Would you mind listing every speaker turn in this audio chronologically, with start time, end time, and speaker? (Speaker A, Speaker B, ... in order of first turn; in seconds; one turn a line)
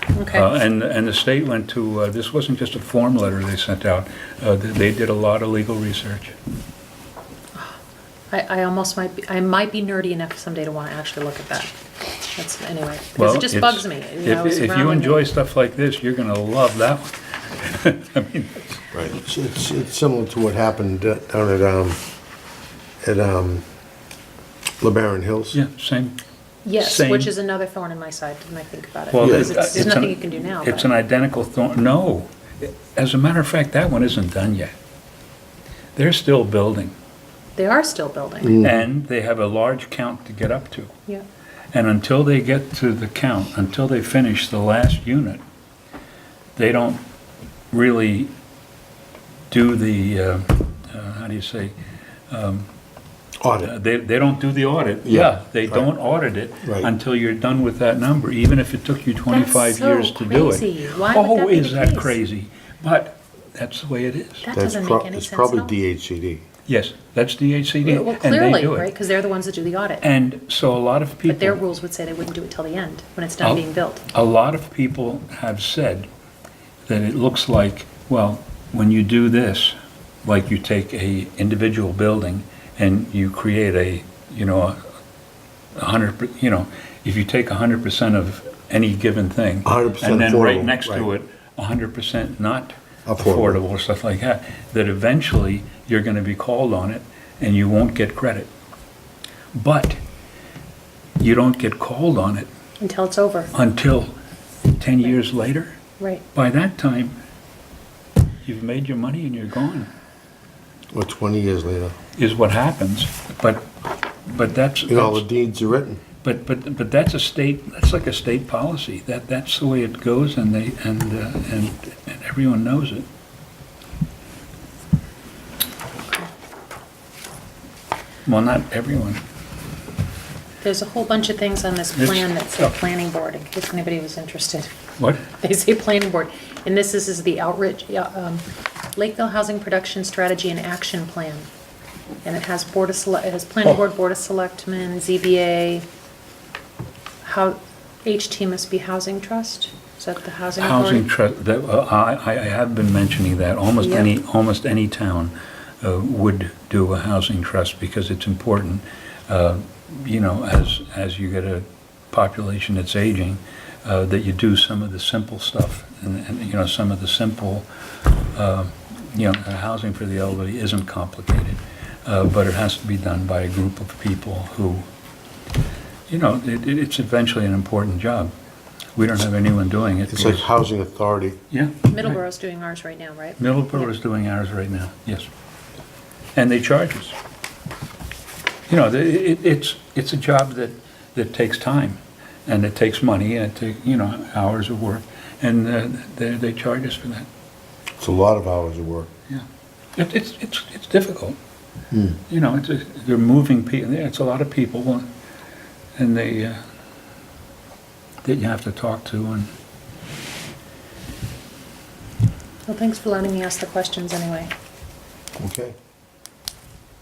Speaker A: 0.1-0.5
Speaker B: 0.3-6.3
Speaker A: 8.3-11.7
Speaker A: 12.3-15.2
Speaker B: 13.2-18.7
Speaker C: 18.9-22.0
Speaker C: 23.0-23.6
Speaker C: 24.8-25.6
Speaker B: 25.5-26.2
Speaker A: 26.6-30.9
Speaker B: 26.8-27.3
Speaker B: 29.1-34.7
Speaker C: 29.2-29.5
Speaker B: 36.0-36.9
Speaker A: 37.5-38.6
Speaker C: 38.4-38.8
Speaker B: 38.6-40.9
Speaker B: 41.7-45.4
Speaker B: 46.5-47.0
Speaker B: 47.7-48.3
Speaker B: 49.5-51.7
Speaker B: 52.3-52.7
Speaker C: 53.4-53.7
Speaker B: 53.6-64.5
Speaker C: 55.0-55.8
Speaker C: 56.6-56.9
Speaker A: 59.3-62.2
Speaker A: 64.4-65.7
Speaker C: 64.5-66.4
Speaker B: 66.7-68.9
Speaker A: 67.8-70.0
Speaker B: 70.0-71.6
Speaker A: 71.2-74.0
Speaker B: 73.4-76.1
Speaker B: 76.9-84.8
Speaker B: 85.8-98.5
Speaker C: 89.6-91.1
Speaker C: 93.0-93.6
Speaker B: 99.5-100.0
Speaker B: 101.2-102.5
Speaker A: 102.8-103.5
Speaker B: 103.5-104.1
Speaker B: 104.8-105.8
Speaker B: 106.3-107.2
Speaker B: 108.4-109.9
Speaker C: 110.9-111.9
Speaker B: 112.2-113.7
Speaker B: 114.3-115.2
Speaker C: 114.9-116.0
Speaker B: 116.2-123.1
Speaker B: 128.2-129.2
Speaker A: 130.6-134.7
Speaker B: 131.9-132.8
Speaker B: 135.0-135.3
Speaker A: 135.3-141.5
Speaker A: 142.2-145.8
Speaker A: 147.2-151.0
Speaker B: 150.6-167.7
Speaker A: 153.8-154.1
Speaker B: 168.3-174.9
Speaker B: 176.1-178.3
Speaker B: 178.9-180.5
Speaker C: 180.1-181.4
Speaker B: 181.5-182.2
Speaker A: 181.9-183.9
Speaker B: 183.4-185.3
Speaker B: 186.3-187.2
Speaker B: 188.7-197.3
Speaker C: 198.0-199.1
Speaker B: 199.3-201.4
Speaker C: 201.9-202.2
Speaker B: 202.3-205.1
Speaker B: 206.0-206.6
Speaker B: 208.2-209.5
Speaker A: 212.7-214.5
Speaker C: 215.4-215.7